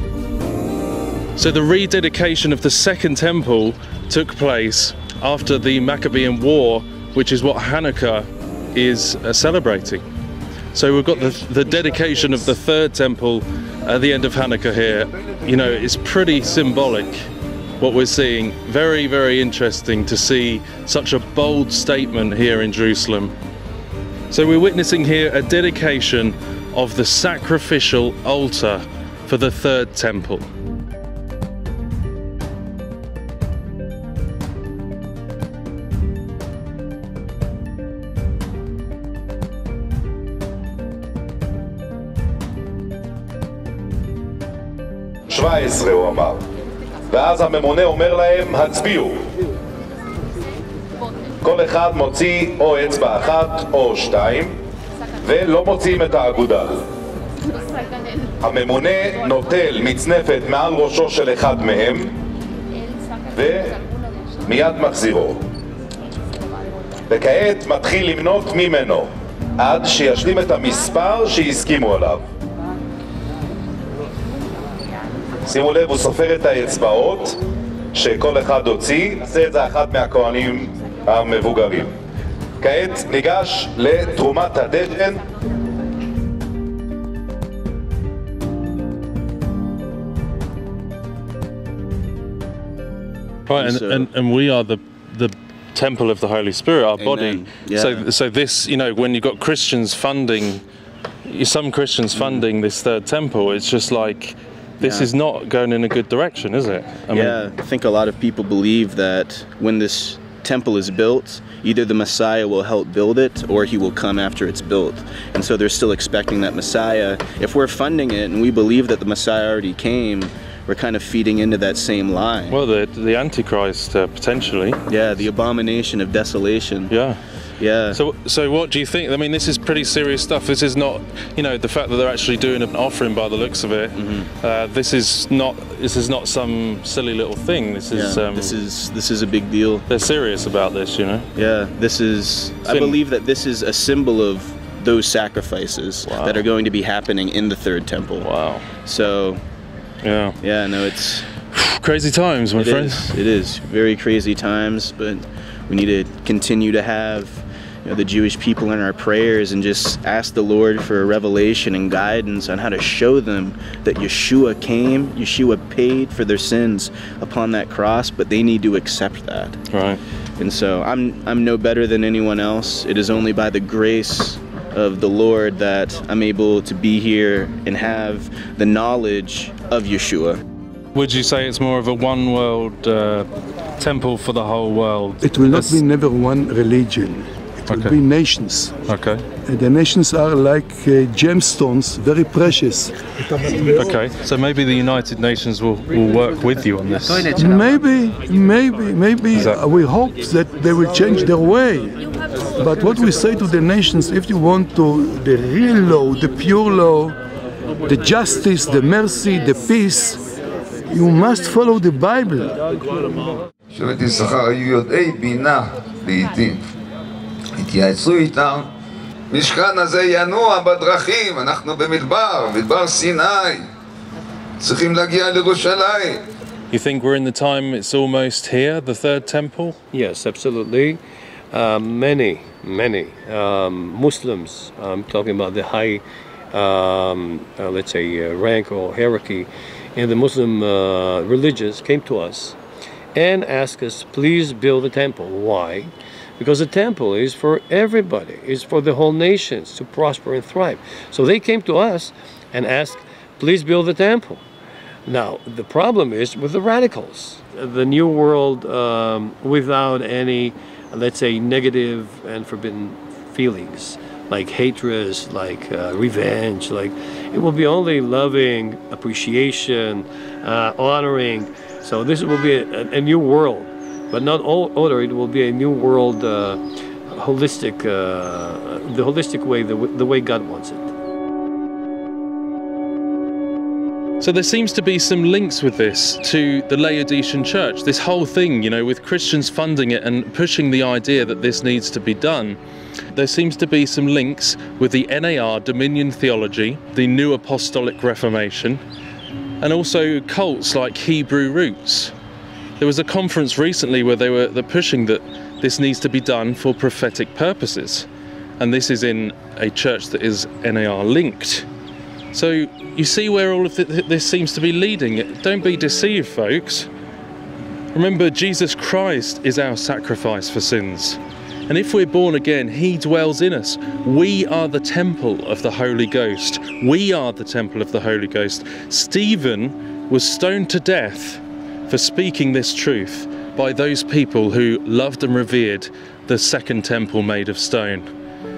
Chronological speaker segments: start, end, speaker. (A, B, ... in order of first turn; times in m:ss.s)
0:01.4-0:10.0 A
0:10.7-0:17.2 A
0:17.8-0:23.3 A
0:24.3-0:30.5 A
0:45.3-0:46.4 B
0:47.1-0:49.2 B
0:51.4-0:54.5 B
0:55.2-0:56.8 B
0:58.4-1:02.1 B
1:03.3-1:03.8 B
1:04.4-1:05.4 B
1:07.1-1:09.1 B
1:09.6-1:12.2 B
1:15.5-1:17.4 B
1:17.9-1:21.9 B
1:22.6-1:25.2 B
1:33.5-1:40.6 A
1:33.5-1:34.1 C
1:37.0-1:38.0 C
1:41.2-1:47.4 A
1:42.1-1:42.4 C
1:44.8-1:45.1 C
1:47.1-2:02.6 C
2:02.5-2:04.8 A
2:04.9-2:06.9 C
2:06.9-2:07.2 A
2:07.6-2:08.0 C
2:07.9-2:18.6 A
2:13.9-2:14.3 C
2:17.9-2:19.8 C
2:19.9-2:21.3 A
2:21.4-2:28.3 C
2:22.6-2:23.0 A
2:26.0-2:26.5 A
2:28.2-2:28.6 A
2:28.8-2:29.4 C
2:30.0-2:30.4 A
2:30.4-2:31.3 C
2:31.5-2:33.2 A
2:32.6-2:49.6 C
2:49.7-2:50.0 A
2:50.4-3:00.4 C
3:00.9-3:05.8 A
3:05.2-3:08.7 D
3:07.7-3:08.0 A
3:08.9-3:09.2 A
3:09.4-3:12.9 D
3:13.7-3:17.4 A
3:17.4-3:22.0 D
3:19.3-3:19.6 A
3:22.6-3:27.2 D
3:27.8-3:30.2 D
3:30.9-3:32.6 D
3:33.7-3:36.6 E
3:37.6-3:38.7 E
3:39.3-3:43.7 E
3:44.6-3:46.2 E
3:46.7-3:49.8 A
3:49.9-3:51.0 F
3:51.5-4:02.6 F
4:03.1-4:14.4 F
4:15.0-4:40.9 F
4:44.2-4:52.6 A
4:53.1-4:58.8 A
4:59.6-5:02.1 A
5:02.8-5:08.1 A
5:08.6-5:11.7 A
5:12.3-5:16.9 A
5:17.9-5:38.1 A